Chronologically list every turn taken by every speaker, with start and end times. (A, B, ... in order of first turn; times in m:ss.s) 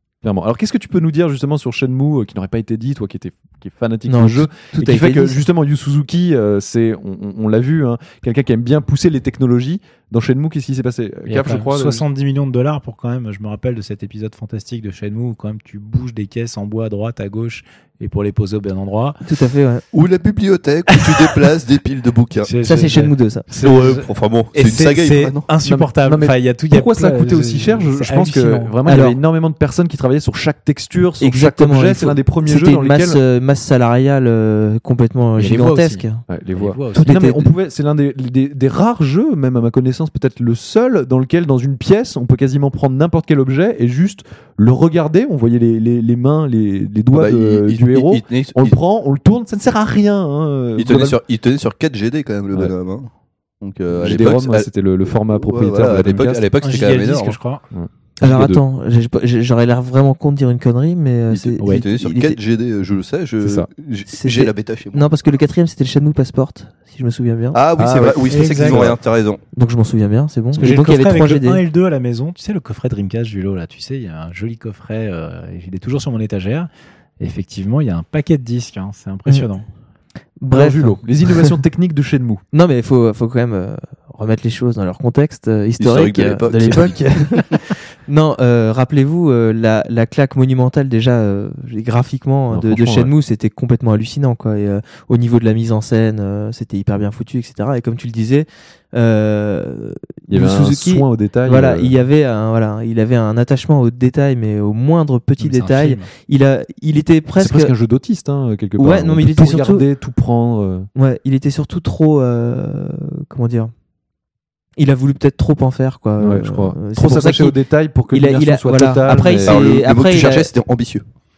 0:00.2-0:12.0 A
0:04.1-0:05.4 B
0:11.3-0:19.2 C
0:19.2-0:19.8 B
0:19.9-0:22.5 D
0:20.9-0:21.3 C
0:22.4-0:28.7 C
0:22.6-0:23.5 B
0:23.6-0:25.4 D
0:25.6-0:33.2 A
0:28.8-0:29.2 B
0:31.2-0:36.2 B
0:35.4-0:37.3 C
0:36.3-0:51.2 A
0:36.9-0:37.5 B
0:47.1-0:48.8 D
0:50.8-0:53.1 D
0:53.6-0:57.4 D
0:54.0-0:56.4 A
0:56.6-0:57.6 C
0:57.7-0:58.6 A
0:58.2-1:02.4 B
1:01.3-1:05.1 D
1:01.6-1:01.8 C
1:03.4-1:03.7 A
1:04.1-1:07.6 B
1:07.5-1:09.4 D
1:07.8-1:09.0 A
1:08.3-1:08.9 C
1:09.5-1:11.6 B
1:10.6-1:16.7 C
1:17.2-1:19.7 C
1:20.4-1:21.5 B
1:20.5-1:22.4 A
1:22.5-1:47.7 B
1:25.8-1:27.6 D
1:32.5-1:33.1 A
1:40.3-1:42.0 A
1:45.4-1:46.1 C
1:47.4-1:50.9 A
1:48.8-1:49.8 B
1:51.0-1:53.7 B
1:54.8-1:57.6 B
1:56.2-1:59.6 A
1:58.1-2:00.5 B
1:59.4-2:01.0 D